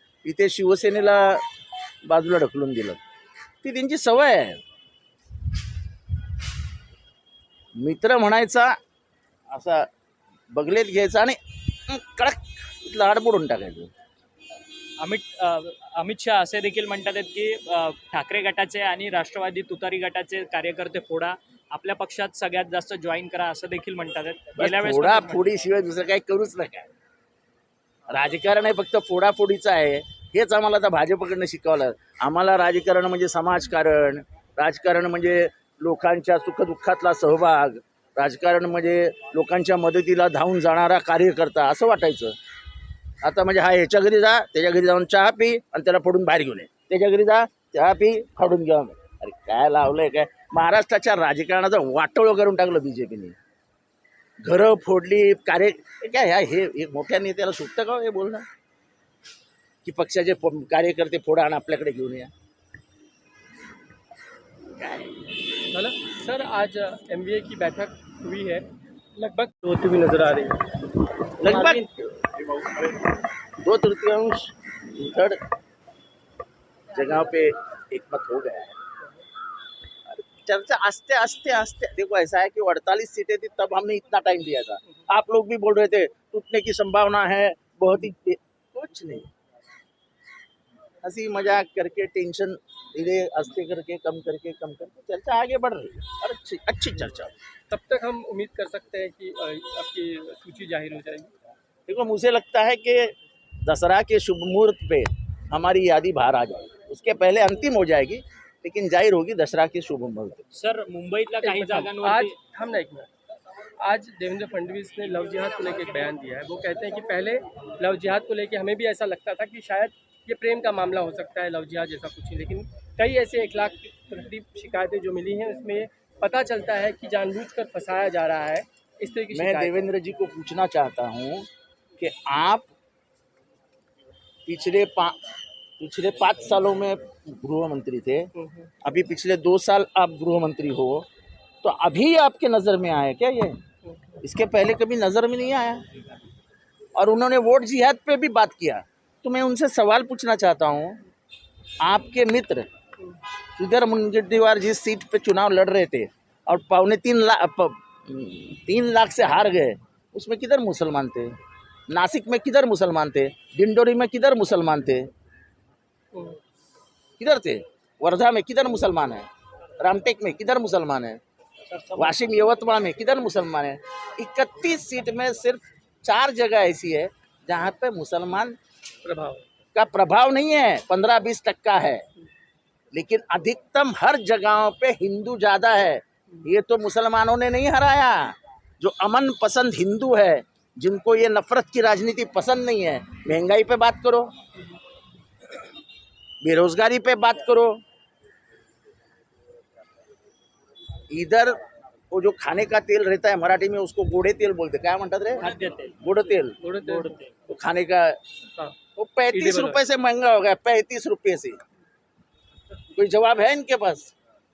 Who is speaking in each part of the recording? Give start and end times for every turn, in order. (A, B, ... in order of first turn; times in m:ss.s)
0:00.2-0:01.4 A
0:02.1-0:03.0 A
0:03.6-0:04.6 A
0:07.8-0:08.8 A
0:09.5-0:09.9 A
0:10.5-0:13.9 A
0:15.0-0:25.4 B
0:24.6-0:26.9 A
0:28.1-0:42.4 A
0:43.2-0:53.4 A
0:54.4-0:58.4 A
0:59.8-1:02.3 A
1:04.8-1:05.2 A
1:05.7-1:10.6 C
1:11.4-1:13.1 A
1:11.4-1:11.8 C
1:13.6-1:15.4 A
1:16.9-1:18.8 A
1:20.1-1:29.3 A
1:31.0-1:37.3 A
1:37.7-1:41.3 C
1:41.9-1:50.4 A
1:50.5-1:52.4 B
1:51.4-1:53.1 C
1:53.8-2:09.8 C
2:09.3-2:11.5 A
2:12.0-2:12.7 A
2:14.4-2:15.2 A
2:15.8-2:18.3 A
2:18.4-2:18.7 C
2:18.8-2:21.1 A
2:21.6-2:23.6 A
2:23.9-2:24.2 C
2:24.2-2:25.8 A
2:27.0-2:31.0 A
2:31.8-2:32.7 A
2:33.6-2:41.3 A
2:41.9-2:45.1 A
2:47.2-2:49.3 A
2:49.8-2:51.2 A
2:51.9-2:58.6 A
2:59.0-2:59.4 C
2:59.7-3:02.0 A
3:02.9-3:14.3 A
3:16.4-3:17.8 A
3:21.1-3:21.6 A
3:22.1-3:25.5 A
3:25.4-3:25.9 B
3:26.0-3:26.6 A
3:26.6-3:27.2 C
3:26.8-3:27.3 B
3:27.5-3:28.2 A
3:29.0-3:31.6 A
3:29.3-3:29.8 C
3:32.9-3:34.1 A